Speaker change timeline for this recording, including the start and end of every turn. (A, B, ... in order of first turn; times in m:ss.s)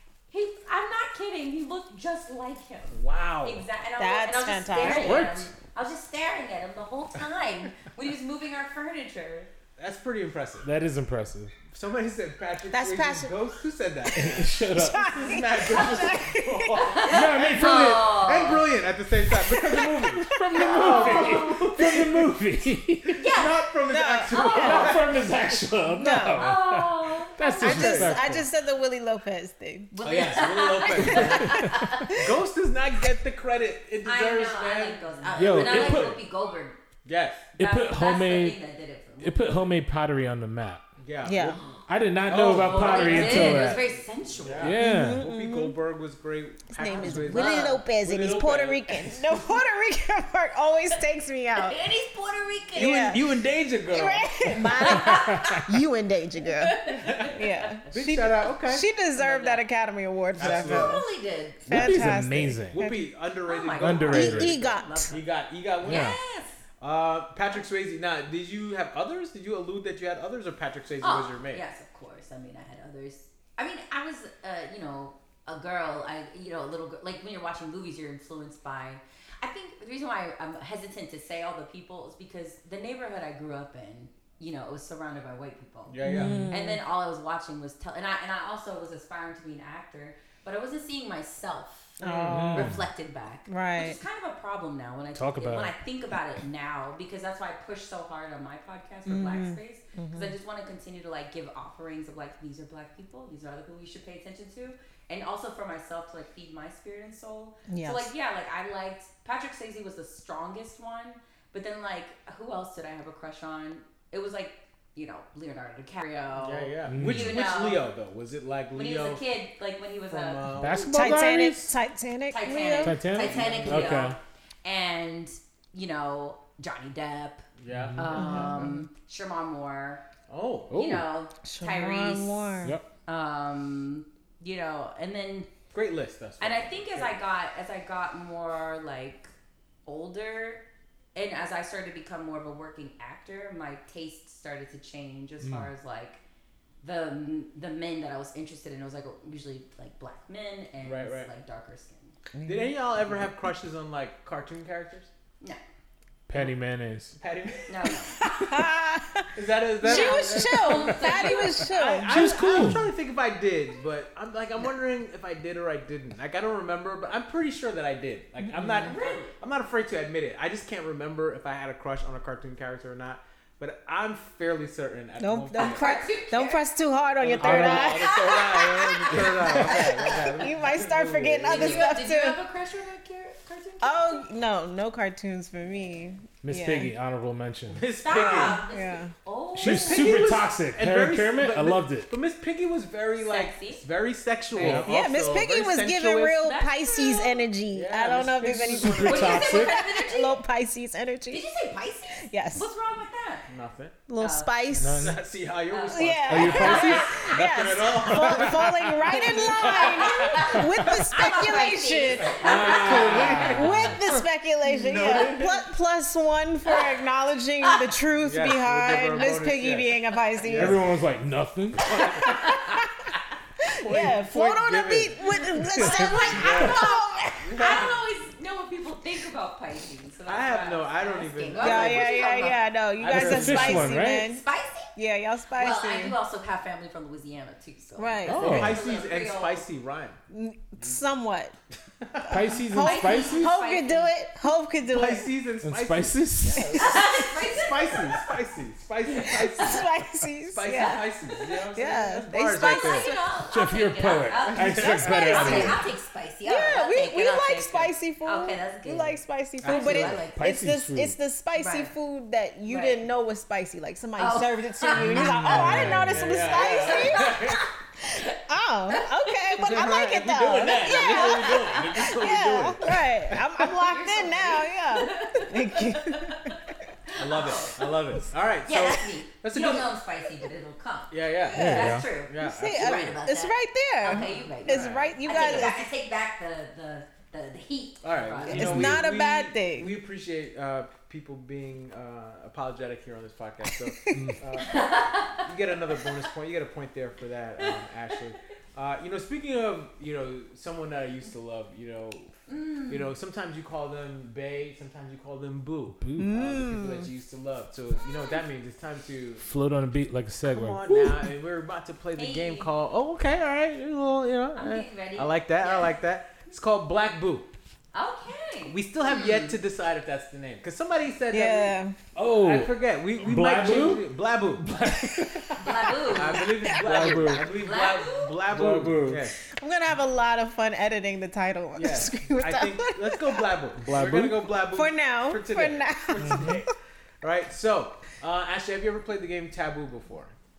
0:00.3-0:09.5 A
0:02.9-0:03.6 B
0:04.0-0:05.3 C
0:04.7-0:05.5 B
0:09.8-0:10.7 B
0:10.6-0:11.5 D
0:11.7-0:22.3 B
0:12.7-0:13.3 C
0:14.1-0:17.0 C
0:14.1-0:15.3 D
0:16.8-0:18.7 A
0:17.0-0:18.1 D
0:19.3-0:21.2 C
0:19.6-0:23.3 D
0:20.8-0:21.7 A
0:23.1-0:23.6 A
0:23.3-0:25.2 B
0:23.9-0:25.0 C
0:24.3-0:24.9 A
0:24.5-0:28.5 D
0:25.9-0:26.5 C
0:26.4-0:28.0 A
0:27.6-0:29.9 C
0:27.6-0:28.2 B
0:29.9-0:32.2 A
0:30.0-0:36.2 B
0:31.2-0:31.9 D
0:34.0-0:36.8 A
0:35.4-0:36.2 D
0:37.0-0:37.5 B
0:37.6-0:38.6 D
0:37.6-0:39.5 A
0:39.2-0:40.8 D
0:41.0-0:41.6 B
0:41.2-0:41.6 C
0:41.5-0:41.8 A
0:41.9-0:43.8 D
0:42.2-0:49.1 B
0:42.6-0:44.7 A
0:44.6-0:45.2 D
0:44.8-0:45.7 C
0:46.7-0:51.8 C
0:47.0-0:47.8 A
0:51.5-0:53.2 A
0:52.7-0:53.3 C
0:52.7-0:55.1 B
0:53.8-1:01.0 C
0:54.8-0:55.7 A
0:55.1-0:55.6 D
0:56.4-0:58.0 A
0:57.0-0:57.3 B
0:57.9-0:58.8 B
0:59.1-0:59.6 A
1:00.4-1:01.0 B
1:00.4-1:02.0 A
1:01.6-1:03.1 C
1:01.7-1:02.8 D
1:02.7-1:06.1 B
1:03.4-1:05.2 A
1:03.8-1:04.6 D
1:04.1-1:05.2 C
1:05.8-1:06.2 D
1:05.8-1:06.6 A
1:06.8-1:11.6 B
1:11.0-1:26.0 A
1:25.9-1:26.4 B
1:26.0-1:26.8 C
1:26.1-1:26.5 D
1:26.5-1:57.9 A
1:32.0-1:32.7 C
1:32.0-1:32.8 B
1:32.3-1:32.8 D
1:33.5-1:34.0 C
1:35.1-1:35.7 D
1:39.0-1:40.3 C
1:47.7-1:48.1 C
1:56.4-1:59.2 B
1:56.8-1:57.4 D
1:58.7-2:00.4 A
2:00.1-2:01.2 B
2:00.5-2:01.7 D
2:00.8-2:03.0 C
2:02.3-2:07.4 A
2:02.8-2:04.2 D
2:03.1-2:04.1 B
2:07.6-2:08.5 B
2:07.7-2:08.2 D
2:08.0-2:10.0 A
2:08.1-2:08.8 C
2:10.3-2:10.8 B
2:10.7-2:11.0 D
2:10.7-2:15.5 A
2:11.4-2:12.8 C
2:15.7-2:17.2 B
2:16.4-2:19.3 A
2:19.8-2:20.6 A
2:21.1-2:26.2 A
2:25.4-2:25.7 D
2:26.8-2:32.1 A
2:30.8-2:31.3 B
2:32.3-2:32.7 C
2:32.4-2:35.1 B
2:36.3-2:37.2 D
2:37.2-2:37.7 B
2:37.7-2:38.2 A
2:38.2-2:42.8 C
2:39.3-2:56.0 B
2:39.8-2:41.7 A
2:42.1-2:42.8 D
2:48.7-2:48.9 C
2:48.8-2:49.3 A
2:55.2-3:02.4 C
2:55.5-2:56.6 A
2:57.2-3:02.0 B
2:57.4-2:58.0 D
2:58.0-3:00.0 A
2:59.1-2:59.8 D
3:01.5-3:04.2 A
3:03.8-3:06.9 C
3:06.4-3:07.8 D
3:07.7-3:08.6 B
3:08.0-3:10.3 A
3:08.1-3:09.1 C
3:09.6-3:12.1 D
3:09.6-3:16.4 B
3:13.2-3:13.8 A
3:14.5-3:14.9 D
3:14.6-3:21.4 C
3:16.4-3:17.4 A
3:17.7-3:19.7 B
3:18.6-3:19.8 D
3:19.0-3:20.4 A
3:21.3-3:23.5 A
3:22.2-3:22.7 C
3:23.5-3:24.0 B
3:24.1-3:25.1 C
3:24.2-3:24.8 A
3:24.8-3:30.5 B
3:24.8-3:25.2 D
3:25.7-3:27.3 A
3:25.9-3:40.8 C
3:26.2-3:27.2 D
3:28.1-3:28.9 D
3:29.1-3:33.5 A
3:32.2-3:35.6 B
3:32.4-3:34.0 D
3:36.7-3:36.9 A
3:38.2-3:40.8 B
3:40.5-3:42.0 D
3:41.9-3:42.6 B
3:42.0-3:42.8 A
3:42.1-3:43.1 C
3:43.6-3:47.9 C
3:43.8-3:46.9 B
3:45.5-3:52.6 A
3:45.7-3:46.7 D
3:47.4-3:48.0 B
3:50.3-3:52.4 B
3:51.6-3:54.4 C
3:53.0-3:53.9 B
3:53.1-3:54.3 D
3:53.7-3:54.9 A
3:54.9-3:56.2 C
3:55.6-3:59.6 A
3:58.0-3:58.6 C
3:58.3-3:58.8 D
3:58.3-4:00.2 B
4:00.3-4:01.6 C
4:02.0-4:02.5 B
4:02.2-4:05.3 C
4:02.3-4:03.5 D
4:02.8-4:04.1 A
4:04.9-4:09.8 B
4:05.6-4:06.9 D
4:06.5-4:07.2 C
4:06.7-4:08.3 A
4:09.0-4:09.9 A
4:09.3-4:11.0 C
4:10.5-4:13.1 B
4:10.7-4:11.6 A
4:11.7-4:13.2 C
4:12.6-4:20.4 A
4:13.5-4:15.8 D
4:14.4-4:15.8 B
4:14.8-4:15.9 C
4:16.4-4:27.5 C
4:19.6-4:20.3 B
4:20.4-4:21.1 D
4:21.5-4:21.9 A
4:22.7-4:23.0 A
4:24.2-4:25.7 A
4:24.9-4:26.4 D
4:25.4-4:27.7 B
4:26.4-4:28.4 A
4:28.1-4:36.7 C
4:28.9-4:32.1 A
4:29.6-4:33.4 B
4:33.6-4:38.0 A
4:37.2-4:39.9 B
4:38.6-4:48.8 A
4:41.1-4:43.2 B
4:41.5-4:42.0 D
4:42.4-4:45.8 C
4:44.1-4:45.7 B
4:48.0-5:02.3 B
4:48.5-4:49.9 C
4:48.5-4:49.0 D
4:53.8-4:54.3 C
4:54.1-4:54.4 D
4:54.6-4:55.5 A
5:02.5-5:03.1 A
5:02.9-5:09.4 B
5:06.0-5:06.4 D
5:06.2-5:07.1 C
5:08.1-5:08.4 A
5:09.4-5:11.3 D
5:10.5-5:17.5 B
5:12.2-5:12.7 A
5:14.6-5:15.9 A
5:17.9-5:19.6 A
5:18.7-5:24.7 B
5:21.3-5:22.0 C
5:22.1-5:25.7 D
5:25.1-5:25.4 C
5:25.6-5:26.5 A
5:26.0-5:29.4 B
5:26.1-5:27.4 C
5:26.7-5:27.5 D
5:27.6-5:28.4 A
5:28.5-5:29.2 D
5:29.4-5:33.5 C
5:31.7-5:36.7 B
5:33.8-5:34.5 D
5:34.7-5:36.7 C
5:36.2-5:36.6 D
5:37.2-5:40.3 B